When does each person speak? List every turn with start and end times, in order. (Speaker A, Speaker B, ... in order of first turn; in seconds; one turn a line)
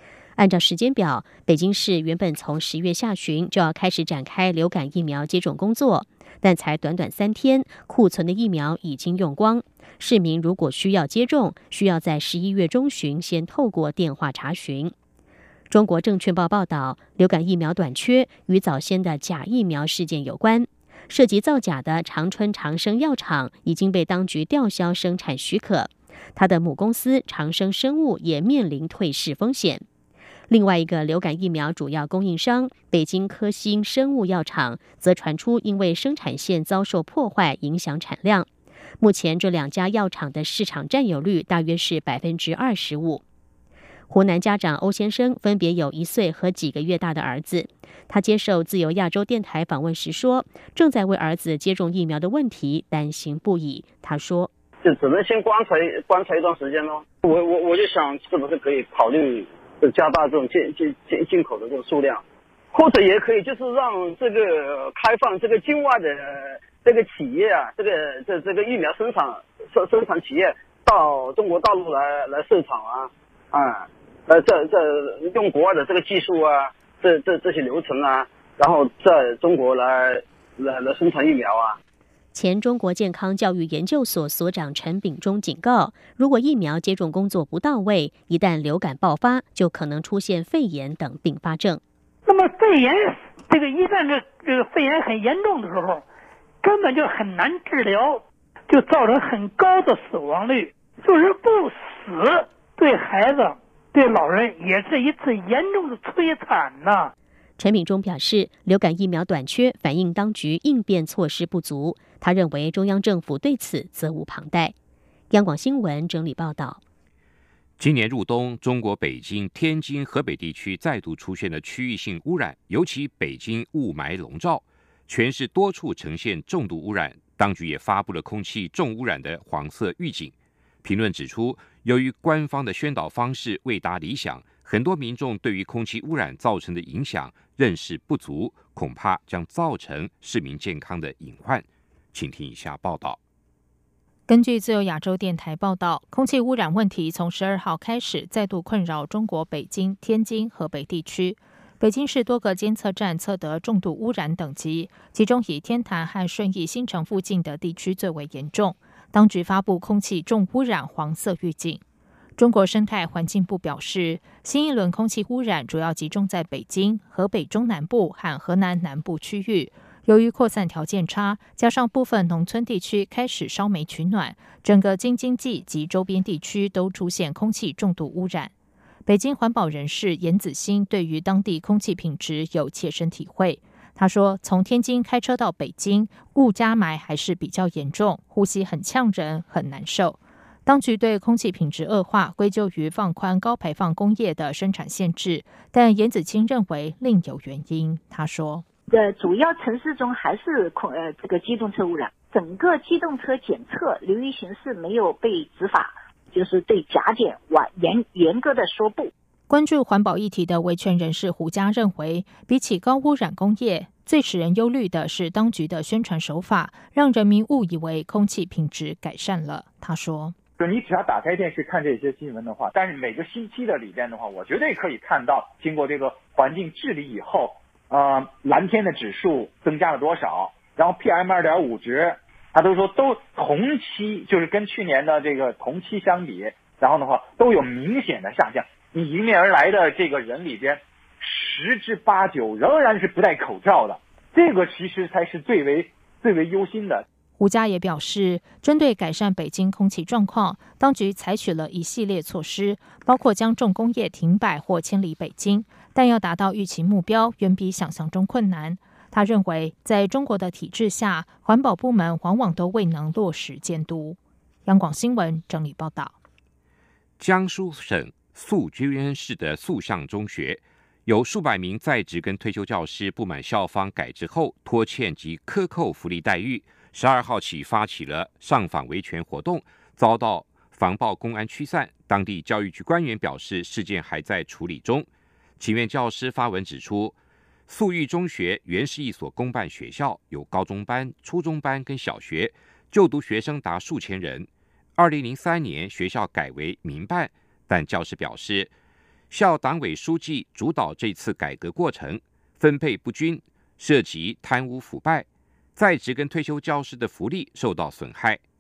Speaker A: 0.4-14.9
Speaker A: 15.7-29.8
Speaker A: 30.5-38.5
Speaker A: 39.0-43.2
Speaker A: 44.1-54.5
Speaker B: 54.8-81.8
Speaker A: 82.3-91.8
Speaker C: 92.3-96.0
Speaker C: 96.6-107.1
Speaker A: 107.6-114.7
Speaker A: 115.3-116.8
Speaker D: 117.8-130.3
Speaker D: 130.8-143.2
Speaker E: 144.3-161.8
Speaker E: 162.4-178.5
Speaker E: 179.1-198.6
Speaker F: 198.9-209.1
Speaker E: 209.5-220.3
Speaker G: 220.6-247.1
Speaker E: 247.4-266.1
Speaker D: 267.2-285.1
Speaker D: 285.6-287.1
Speaker D: 287.7-298.7
Speaker D: 299.3-305.3
Speaker D: 305.8-308.4